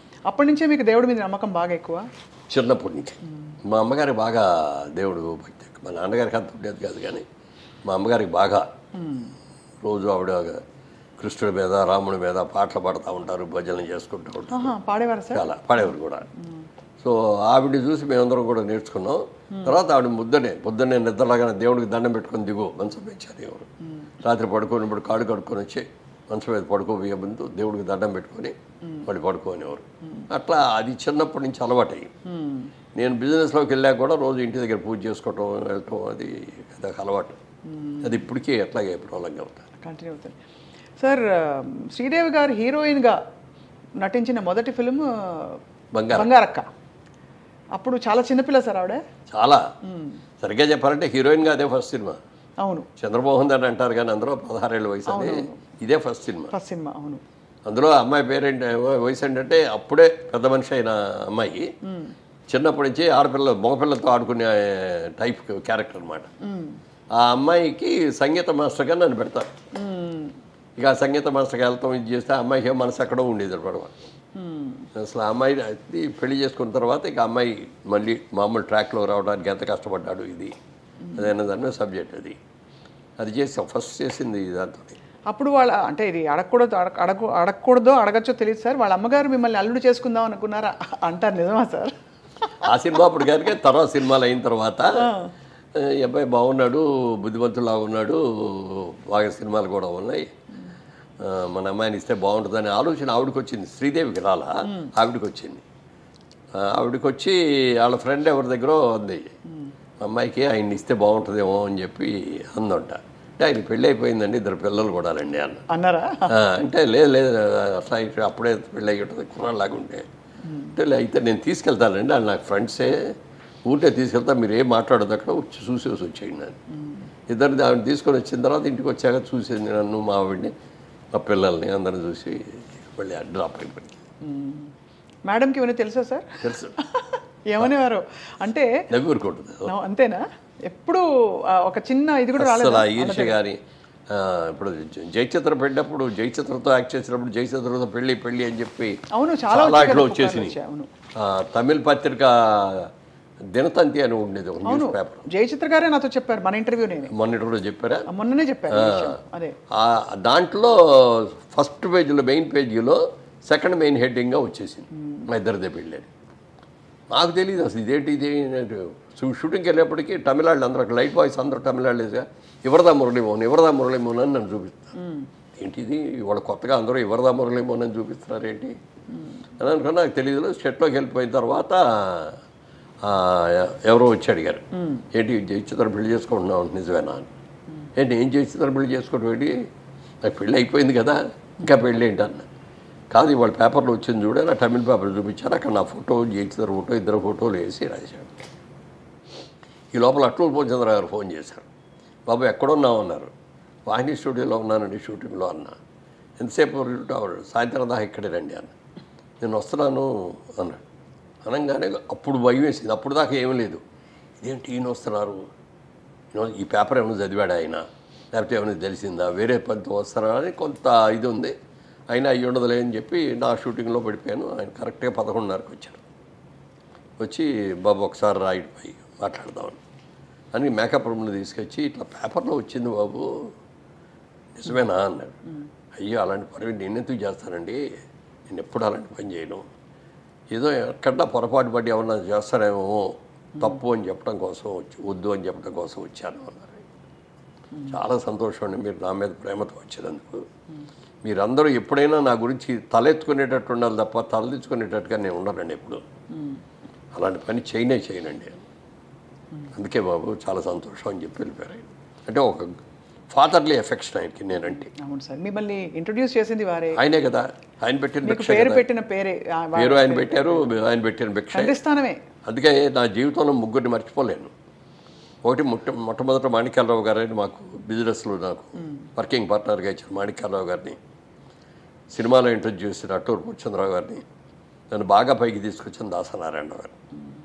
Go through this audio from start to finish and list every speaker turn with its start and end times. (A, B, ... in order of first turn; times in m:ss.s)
0:00.3-0:02.0 A
0:02.5-0:07.2 B
0:07.8-0:08.7 B
0:09.0-0:09.3 A
0:09.8-0:10.6 B
0:11.2-0:14.7 B
0:14.5-0:15.5 A
0:15.3-0:16.3 B
0:17.0-0:23.7 B
0:24.2-0:32.1 B
0:32.3-0:32.7 A
0:33.0-0:37.4 B
0:37.7-0:38.1 A
0:38.0-0:39.6 B
0:39.8-0:40.4 A
0:41.0-0:43.2 A
0:44.0-0:45.6 A
0:45.9-0:46.3 B
0:46.1-0:46.7 A
0:47.8-0:49.0 A
0:49.3-0:49.6 B
0:49.8-0:50.2 A
0:50.4-0:52.2 B
0:52.6-0:52.9 A
0:53.0-0:56.5 B
0:55.1-0:55.6 A
0:56.5-0:57.2 A
0:57.7-1:01.7 B
1:01.8-1:02.1 A
1:02.5-1:06.3 B
1:06.4-1:06.8 A
1:07.1-1:09.5 B
1:09.7-1:10.3 A
1:10.8-1:13.9 B
1:14.4-1:14.9 A
1:15.0-1:20.6 B
1:21.2-1:22.4 B
1:23.2-1:25.0 B
1:25.3-1:32.0 A
1:32.6-1:35.1 B
1:35.0-1:35.3 A
1:35.8-1:40.3 B
1:41.2-1:45.6 B
1:46.5-1:49.3 B
1:50.0-1:55.6 B
1:55.7-1:56.3 A
1:56.3-2:00.1 B
2:00.5-2:00.7 A
2:00.8-2:03.1 B
2:03.7-2:06.6 B
2:06.7-2:07.1 A
2:07.3-2:10.5 B
2:11.1-2:14.0 B
2:14.2-2:14.7 A
2:15.2-2:18.7 A
2:16.4-2:16.7 B
2:18.9-2:19.7 B
2:19.6-2:23.4 A
2:22.4-2:23.6 B
2:24.1-2:30.6 B
2:29.1-2:30.9 A
2:31.2-2:32.9 B
2:33.5-2:35.2 B
2:34.6-2:37.1 A
2:37.1-2:38.1 B
2:38.1-2:39.6 A
2:38.7-2:39.2 B
2:39.7-2:46.1 B
2:47.1-2:55.0 B
2:55.0-2:55.3 A
2:55.5-2:58.8 B
2:59.6-3:02.4 B
3:03.0-3:07.3 B
3:08.0-3:09.7 B
3:10.2-3:12.5 B
3:13.1-3:18.4 B
3:19.9-3:21.7 B
3:22.3-3:23.3 B
3:23.8-3:25.8 B
3:26.4-3:28.7 B
3:29.4-3:30.8 B
3:31.4-3:33.8 B
3:34.4-3:35.4 B
3:36.3-3:41.5 B
3:42.1-3:46.0 B
3:47.2-3:49.8 B
3:50.5-3:53.5 B
3:54.5-3:55.4 B
3:56.0-3:57.8 B
3:58.5-3:59.6 B
4:00.5-4:06.8 B
4:07.9-4:10.4 B
4:11.2-4:16.0 B
4:16.3-4:16.6 A
4:17.1-4:18.6 B
4:19.8-4:22.7 B
4:23.3-4:24.9 B
4:24.8-4:27.0 A
4:26.9-4:28.8 B
4:28.2-4:30.7 A
4:29.8-4:31.8 B
4:31.5-4:32.2 A
4:32.4-4:34.5 B
4:35.4-4:41.0 B
4:42.1-4:44.2 B
4:44.9-4:46.9 B